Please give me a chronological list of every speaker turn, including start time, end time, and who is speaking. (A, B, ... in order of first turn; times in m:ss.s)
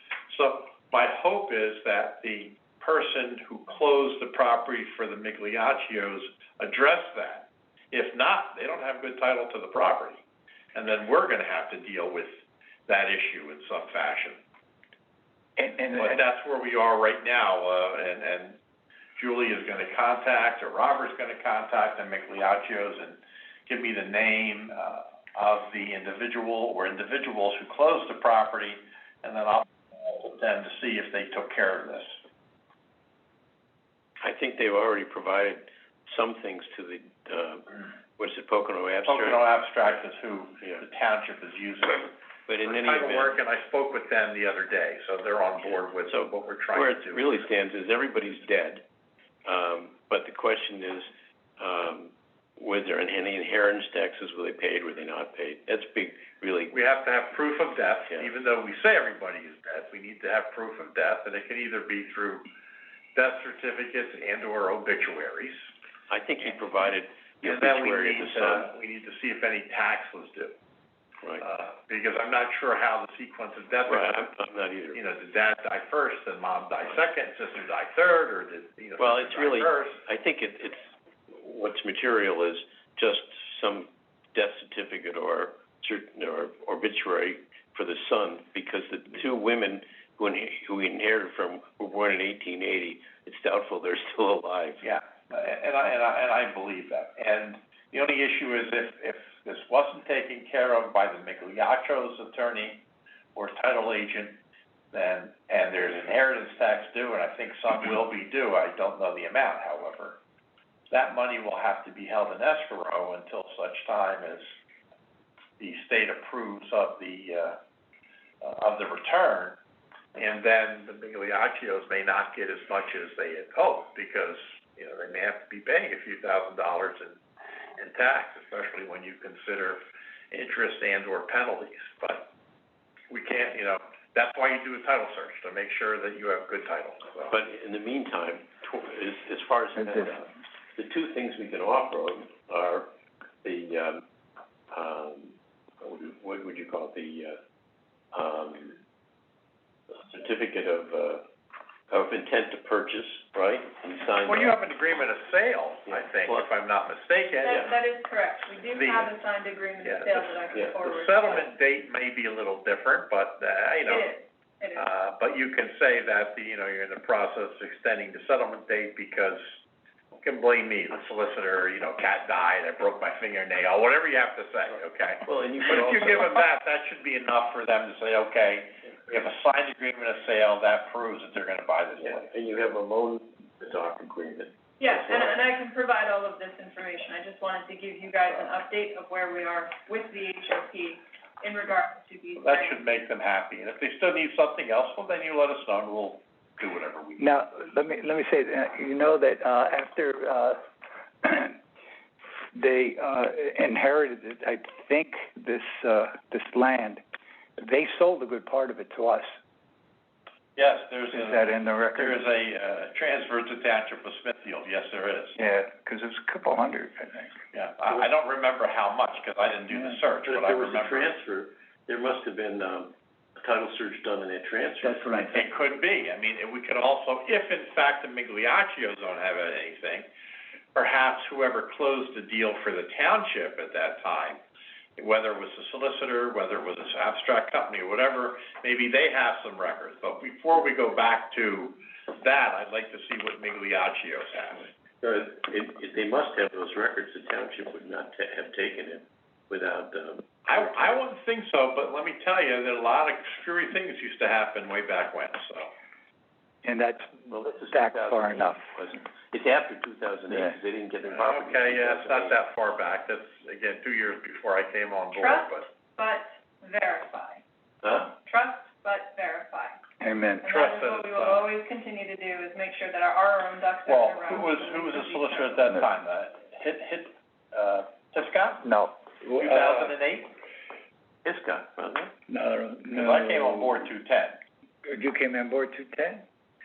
0:00.3-0:10.2 A
0:10.8-0:14.4 A
0:15.6-0:16.2 B
0:15.9-0:18.6 A
0:19.2-0:32.2 A
0:34.2-0:39.9 C
0:39.0-0:42.1 A
0:42.5-0:43.4 C
0:42.6-0:47.2 A
0:45.7-0:48.8 C
0:49.5-0:56.8 C
0:56.7-1:02.4 A
1:03.2-1:05.6 A
1:06.1-1:08.7 C
1:07.4-1:10.6 A
1:11.4-1:14.3 A
1:13.9-1:15.0 C
1:14.9-1:20.0 A
1:19.0-1:34.8 C
1:34.8-1:42.8 A
1:43.4-1:44.4 A
1:44.9-1:50.2 A
1:50.9-1:54.5 A
1:55.6-1:57.6 A
1:58.4-1:59.6 A
2:00.2-2:07.2 A
2:07.8-2:12.3 A
2:13.1-2:17.4 A
2:17.3-2:22.9 C
2:19.8-2:20.1 B
2:23.4-2:24.0 C
2:24.7-2:27.4 C
2:28.1-2:28.8 C
2:30.0-2:31.2 C
2:31.9-2:34.6 C
2:34.2-2:37.6 A
2:35.9-2:36.5 C
2:37.4-2:41.4 D
2:38.7-2:39.1 A
2:39.8-2:44.1 A
2:40.5-2:41.0 C
2:43.8-2:44.9 D
2:44.8-2:49.6 A
2:50.2-3:02.3 A
2:55.3-2:56.4 C
3:02.0-3:05.5 C
3:04.8-3:12.8 D
3:12.4-3:17.3 A
3:17.2-3:20.6 B
3:21.2-3:21.6 B
3:22.5-3:27.0 B
3:27.6-3:29.3 B
3:30.6-3:35.4 A
3:31.1-3:32.2 B
3:35.4-3:37.4 B
3:37.5-3:41.2 A
3:40.2-3:45.4 C
3:44.8-3:45.4 B
3:45.3-3:50.1 A
3:50.7-3:54.4 A
3:55.0-4:04.7 A
4:05.0-4:11.0 C
4:10.5-4:15.7 A
4:16.6-4:18.6 B
4:17.3-4:22.4 C
4:20.3-4:20.6 B
4:21.1-4:25.7 A
4:25.1-4:27.4 D
4:27.8-4:28.2 C
4:28.2-4:29.8 D
4:30.0-4:30.5 B
4:30.4-4:35.7 D
4:30.4-4:31.5 A
4:33.9-4:38.7 A
4:38.6-4:39.9 B
4:39.3-4:40.3 A
4:41.2-4:42.1 C
4:42.3-4:43.8 B
4:42.9-4:44.4 A
4:44.9-4:46.2 B